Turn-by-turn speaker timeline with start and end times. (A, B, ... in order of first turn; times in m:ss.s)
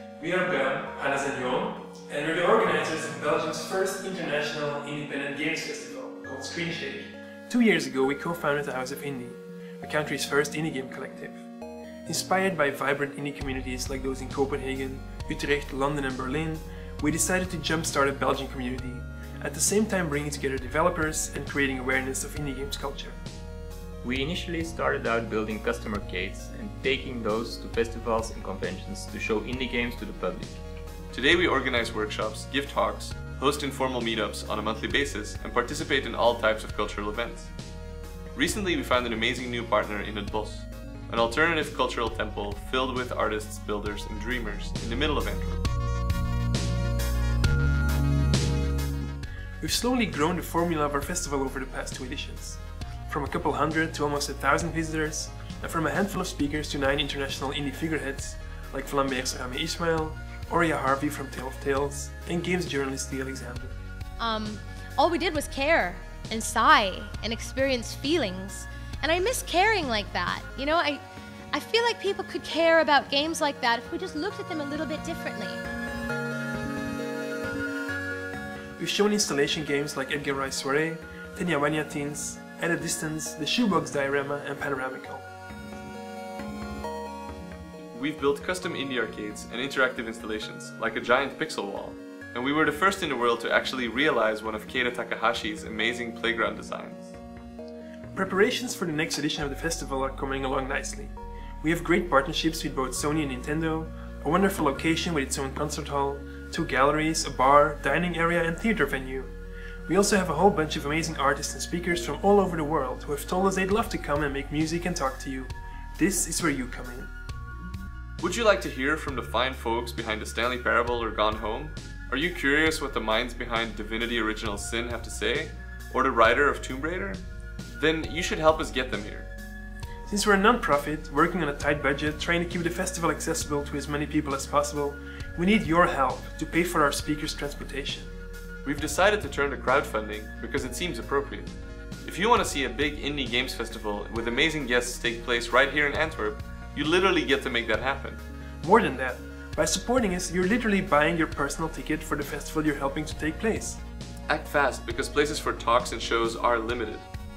0:00.2-0:11.5 A
0:12.1-0:23.2 A
0:24.0-0:30.6 B
0:31.1-0:37.5 C
0:38.4-0:45.6 C
0:49.6-1:03.8 A
1:04.2-1:15.6 D
1:18.8-1:25.3 A
1:27.9-1:37.2 C
1:38.1-1:49.3 A
1:49.9-1:57.1 A
1:58.2-2:09.3 C
2:10.1-2:18.1 A
2:18.6-2:28.2 C
2:28.6-2:33.8 A
2:34.3-2:37.1 C